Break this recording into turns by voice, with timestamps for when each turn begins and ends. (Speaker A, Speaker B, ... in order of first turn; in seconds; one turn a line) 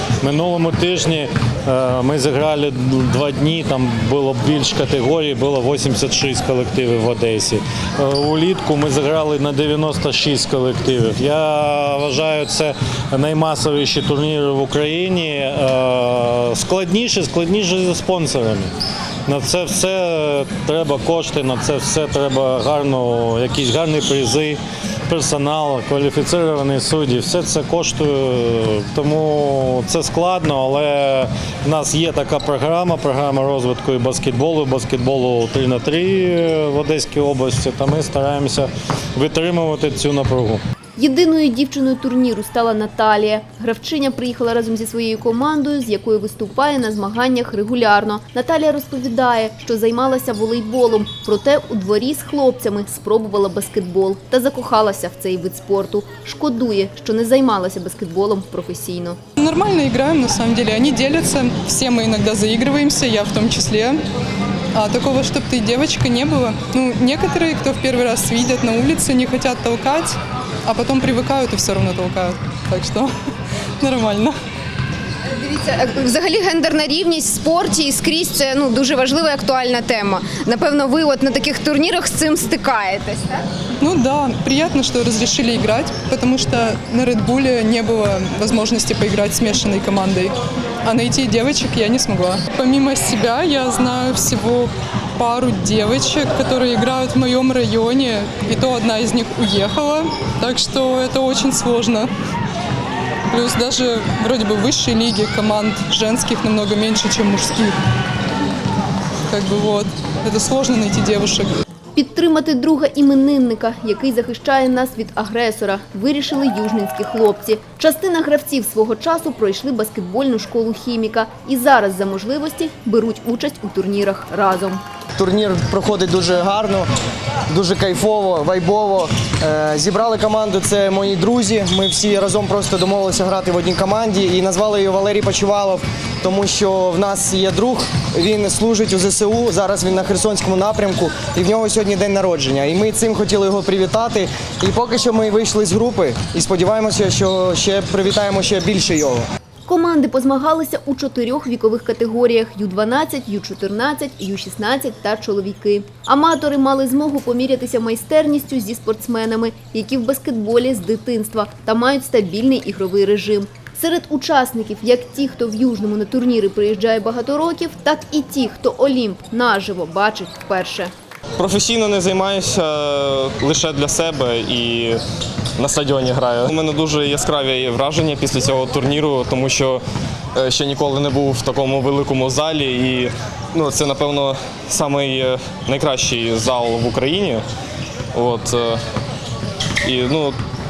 Speaker A: 0.2-18.7
Speaker A: 19.3-40.6
Speaker B: 41.0-59.2
Speaker C: 59.4-64.0
Speaker C: 64.7-73.1
Speaker C: 73.8-74.3
Speaker D: 75.2-83.5
Speaker C: 83.8-102.1
Speaker C: 103.3-107.8
Speaker C: 109.3-111.6
Speaker B: 111.9-124.8
Speaker E: 125.2-126.8
Speaker E: 127.5-149.2
Speaker B: 149.7-170.9
Speaker F: 171.4-175.0
Speaker F: 175.6-179.8
Speaker F: 180.3-187.4
Speaker F: 188.1-188.8
Speaker F: 189.8-190.4